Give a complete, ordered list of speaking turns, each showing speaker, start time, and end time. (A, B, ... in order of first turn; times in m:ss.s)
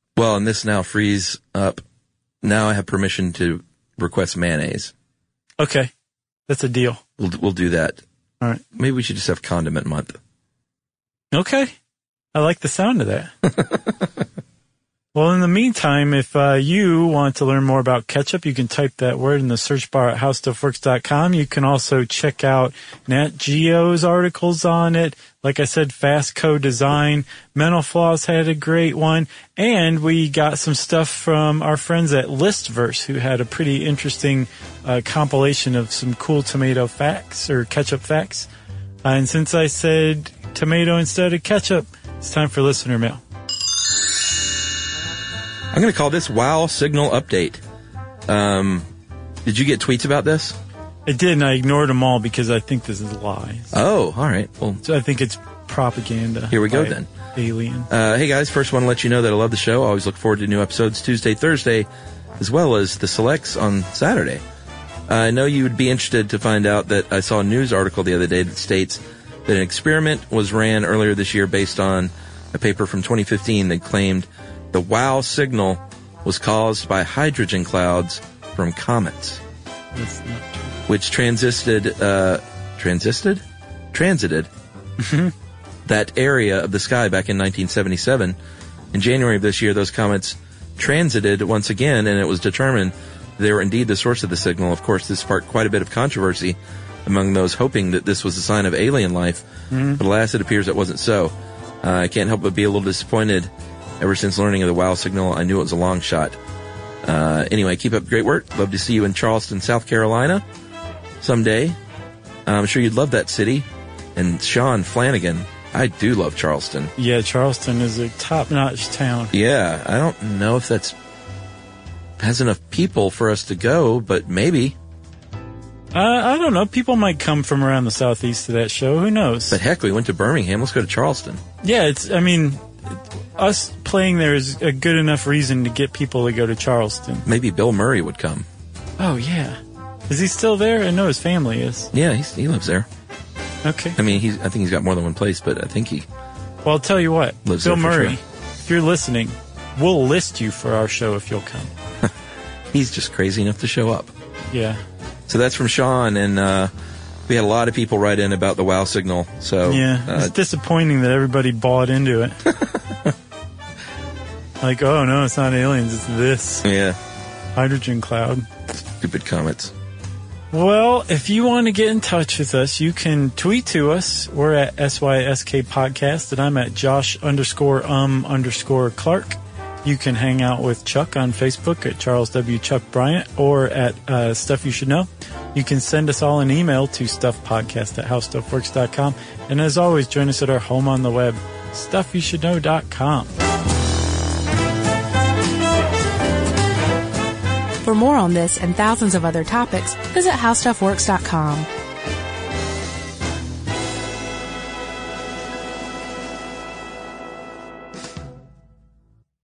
0:00.2-0:01.8 A
0:02.4-0:04.9 A
0:05.6-0:05.9 B
0:06.5-0:07.0 B
0:07.2-0:08.0 A
0:08.8-0:10.2 A
0:11.3-0:11.7 B
0:12.3-0:13.3 B
0:15.1-0:38.5 B
0:39.0-0:43.2 B
0:45.7-0:47.6 A
0:48.3-0:48.8 A
0:49.4-0:50.5 A
0:51.1-0:53.7 B
0:53.7-0:54.8 A
0:54.8-0:57.9 B
0:56.5-0:57.1 A
0:57.9-1:01.9 A
1:02.4-1:04.4 A
1:05.1-1:19.4 A
1:19.9-1:20.7 B
1:20.9-1:23.4 A
1:23.9-1:24.5 A
1:25.0-1:25.3 B
1:25.8-1:28.4 A
1:28.9-1:39.4 A
1:39.7-1:40.0 B
1:40.0-1:46.4 A
1:47.0-1:50.4 A
1:51.2-1:51.8 A
1:52.4-1:56.9 A
1:57.0-1:59.3 B
1:59.3-2:00.9 A
2:02.2-2:04.7 A
2:05.9-2:09.6 B
2:09.5-2:11.4 A
2:11.6-2:17.2 B
2:17.2-2:18.4 A
2:19.0-2:21.9 B
2:21.9-2:22.9 A
2:23.6-2:24.0 B
2:24.0-2:26.0 A
2:26.6-2:31.7 B
2:27.4-2:28.2 A
2:32.7-2:34.1 A
2:34.5-2:34.8 B
2:35.3-2:36.7 A
2:37.3-2:40.3 A
2:39.6-2:42.4 B
2:42.5-2:43.1 A
2:44.6-2:46.6 B
2:46.6-2:47.0 A
2:47.6-2:48.5 B
2:49.0-2:49.7 A
2:50.5-3:13.3 B
3:17.8-3:21.7 C